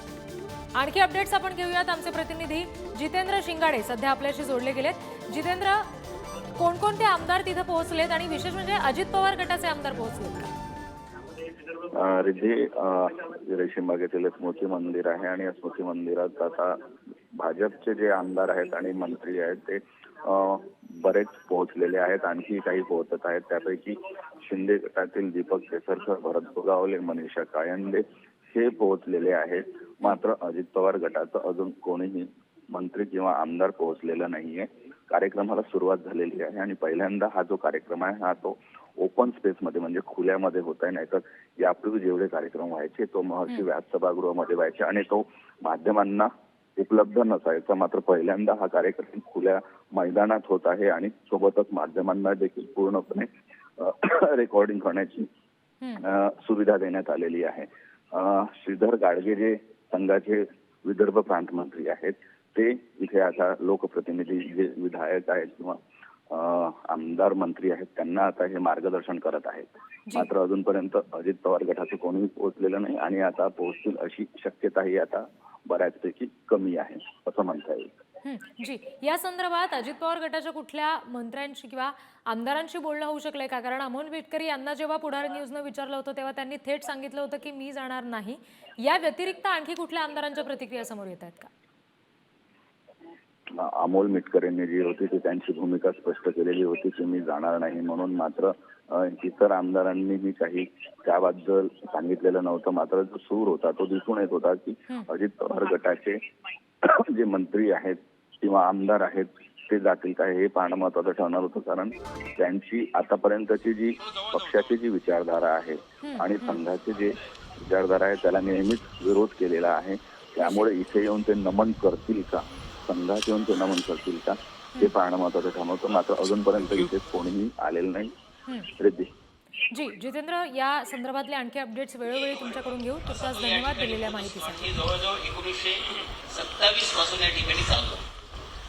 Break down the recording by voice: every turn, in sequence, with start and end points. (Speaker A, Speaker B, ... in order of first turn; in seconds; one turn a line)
Speaker A: 0.8-5.9
Speaker A: 6.6-10.5
Speaker B: 11.8-55.3
Speaker B: 56.0-78.0
Speaker A: 78.2-91.5
Speaker B: 93.5-106.2
Speaker B: 106.8-128.1
Speaker A: 116.0-116.6
Speaker A: 120.4-120.7
Speaker B: 128.8-129.1
Speaker A: 129.7-134.7
Speaker C: 133.1-138.1